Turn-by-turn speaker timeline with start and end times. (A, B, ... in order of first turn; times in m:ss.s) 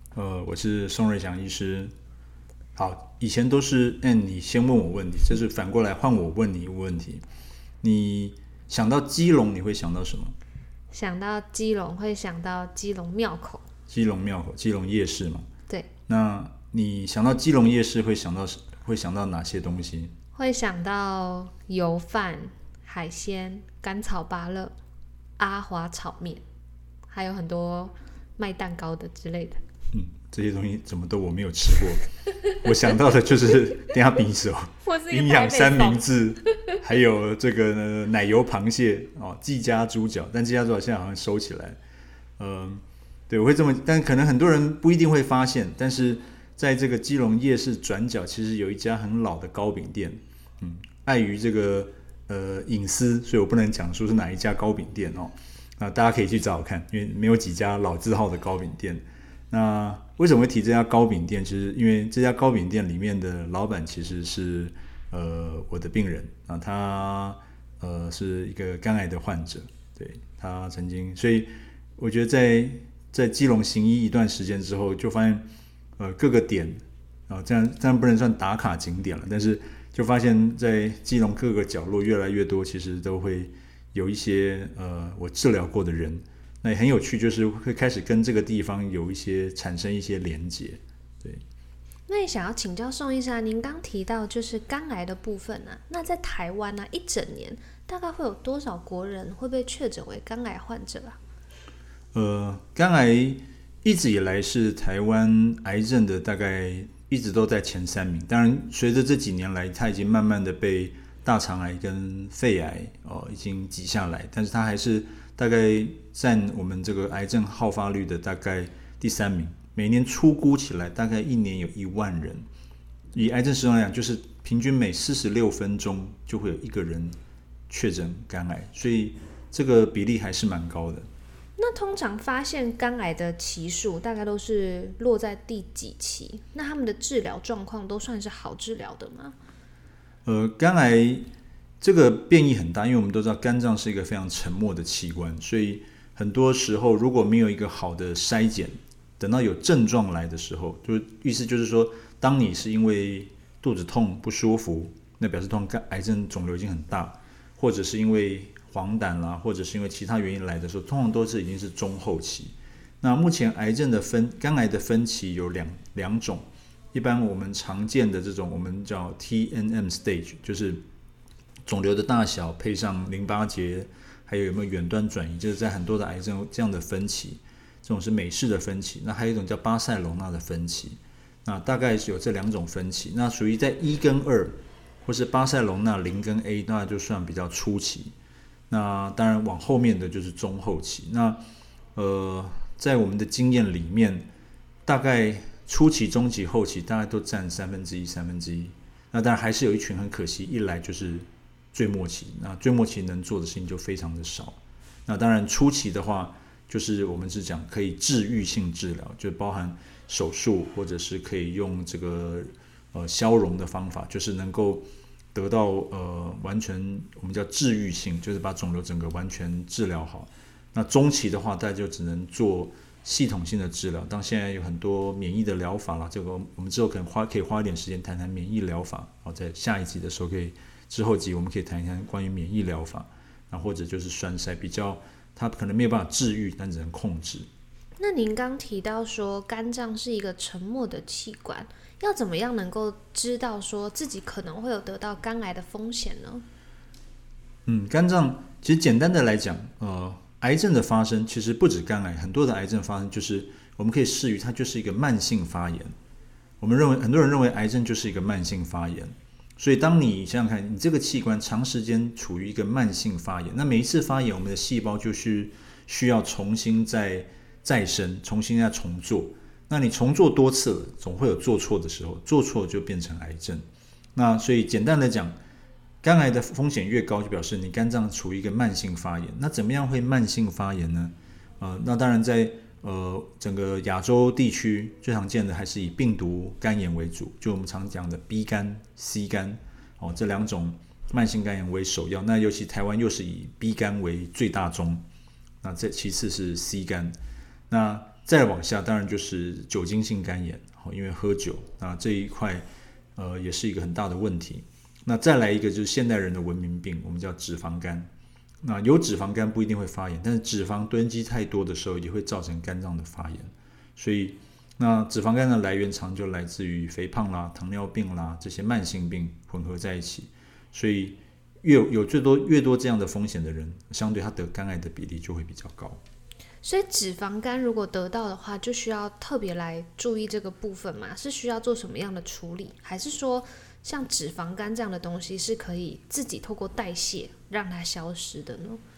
0:00.1-0:01.9 A
0:02.8-0:07.2 A
0:07.8-0:10.4 A
0:10.9-0:13.6 B
0:13.9-0:15.5 A
0:16.1-0:20.1 A
0:20.3-0:24.8 B
0:25.4-0:26.4 B
0:27.1-0:29.6 B
0:29.9-0:41.8 A
0:34.8-0:36.0 B
0:42.4-1:15.4 A
1:16.0-1:31.4 A
1:32.1-1:41.2 B
1:42.1-2:02.4 A
2:03.1-2:07.2 A
2:07.7-2:11.1 A
2:11.6-2:19.3 B
2:20.2-2:21.3 A
2:21.8-2:50.8 A
2:51.6-3:08.1 A
3:08.7-3:11.4 A
3:11.9-3:14.3 A
3:14.8-3:57.5 A
3:58.0-4:06.4 B
4:07.6-4:15.9 A
4:16.6-4:33.6 A
4:34.1-4:35.4 A
4:36.0-4:55.0 A
4:55.6-4:57.1 A
4:57.7-5:08.1 A
5:08.6-5:26.0 A
5:26.6-5:38.8 B